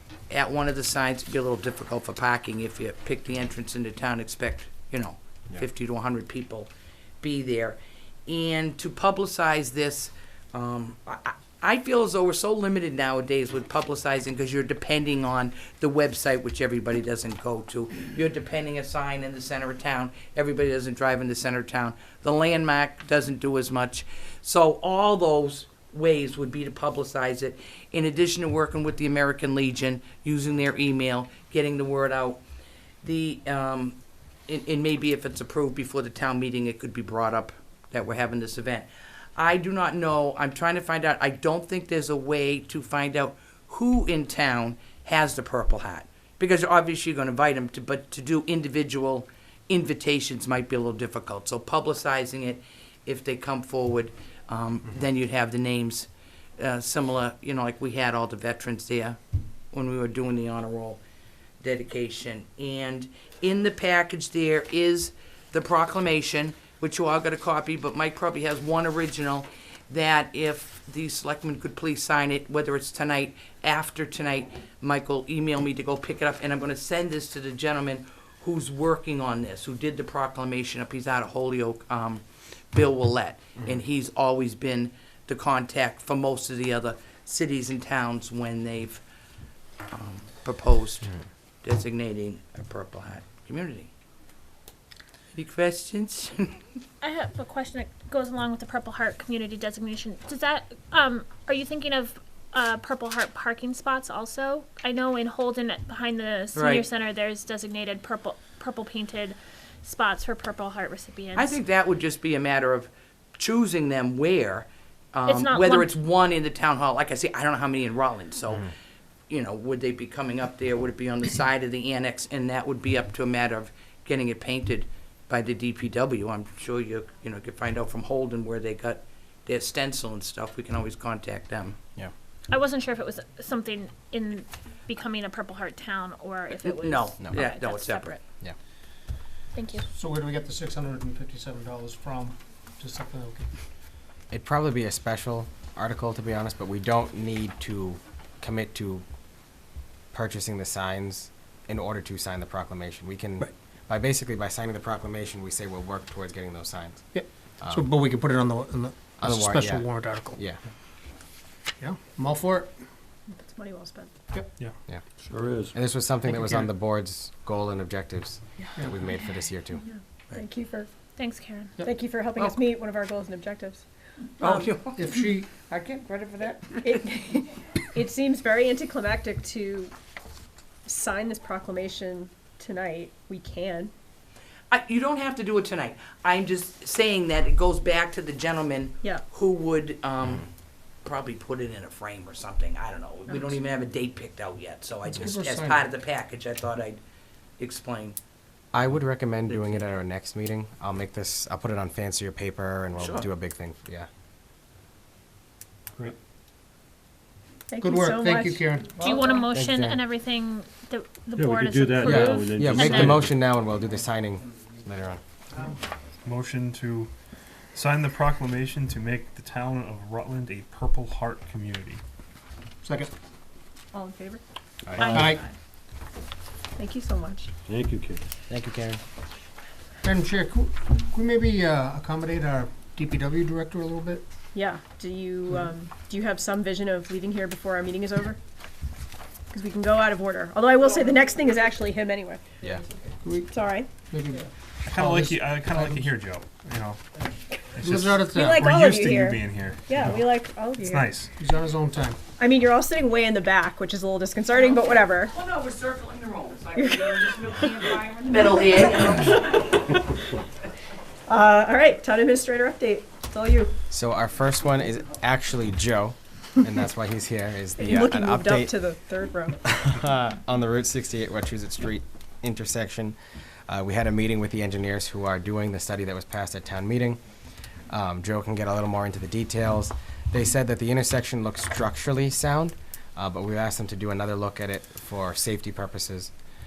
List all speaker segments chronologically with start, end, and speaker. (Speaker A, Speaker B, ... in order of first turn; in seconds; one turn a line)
Speaker A: 0.3-6.7
Speaker A: 7.2-32.4
Speaker A: 33.0-59.2
Speaker A: 59.7-61.0
Speaker A: 61.6-89.0
Speaker A: 89.9-93.9
Speaker A: 95.3-96.6
Speaker B: 97.0-111.6
Speaker A: 106.5-106.8
Speaker A: 111.4-118.7
Speaker B: 115.3-115.9
Speaker A: 119.3-131.8
Speaker B: 132.5-138.2
Speaker A: 136.6-138.2
Speaker B: 139.6-139.9
Speaker C: 139.9-143.5
Speaker D: 144.3-149.1
Speaker D: 150.1-157.1
Speaker C: 157.1-160.4
Speaker D: 159.2-160.6
Speaker C: 161.8-162.7
Speaker E: 163.3-164.2
Speaker F: 165.3-165.7
Speaker D: 165.7-169.8
Speaker E: 170.3-170.9
Speaker B: 171.2-171.7
Speaker E: 171.8-173.8
Speaker A: 174.4-175.1
Speaker E: 174.4-174.7
Speaker C: 174.9-175.6
Speaker A: 175.7-176.8
Speaker E: 176.7-179.9
Speaker E: 180.9-183.9
Speaker A: 184.7-190.5
Speaker A: 191.1-197.0
Speaker C: 195.1-195.9
Speaker A: 197.6-198.2
Speaker D: 198.7-204.1
Speaker A: 199.5-199.8
Speaker A: 203.0-203.3
Speaker E: 207.7-208.7
Speaker C: 207.8-209.3
Speaker B: 209.0-213.3
Speaker D: 209.5-210.0
Speaker F: 211.4-213.3
Speaker D: 212.0-215.2
Speaker G: 216.2-217.1
Speaker G: 217.7-222.0
Speaker C: 222.8-223.1
Speaker E: 223.9-224.4
Speaker D: 224.8-225.4
Speaker B: 225.0-225.5
Speaker C: 225.1-225.4
Speaker E: 226.8-227.5
Speaker F: 227.7-228.2
Speaker D: 228.5-229.0
Speaker C: 230.0-234.2
Speaker E: 234.5-238.4
Speaker E: 239.5-242.4
Speaker C: 243.2-246.1
Speaker E: 243.5-243.9
Speaker G: 244.9-247.1
Speaker G: 247.7-251.3
Speaker C: 247.8-248.6
Speaker E: 248.3-251.1
Speaker C: 251.4-252.2
Speaker E: 252.4-255.3
Speaker A: 254.5-259.8
Speaker E: 256.8-257.9
Speaker E: 261.3-263.7
Speaker D: 263.9-268.8
Speaker E: 267.8-269.6
Speaker D: 269.6-273.2
Speaker D: 273.7-277.2
Speaker D: 277.9-286.3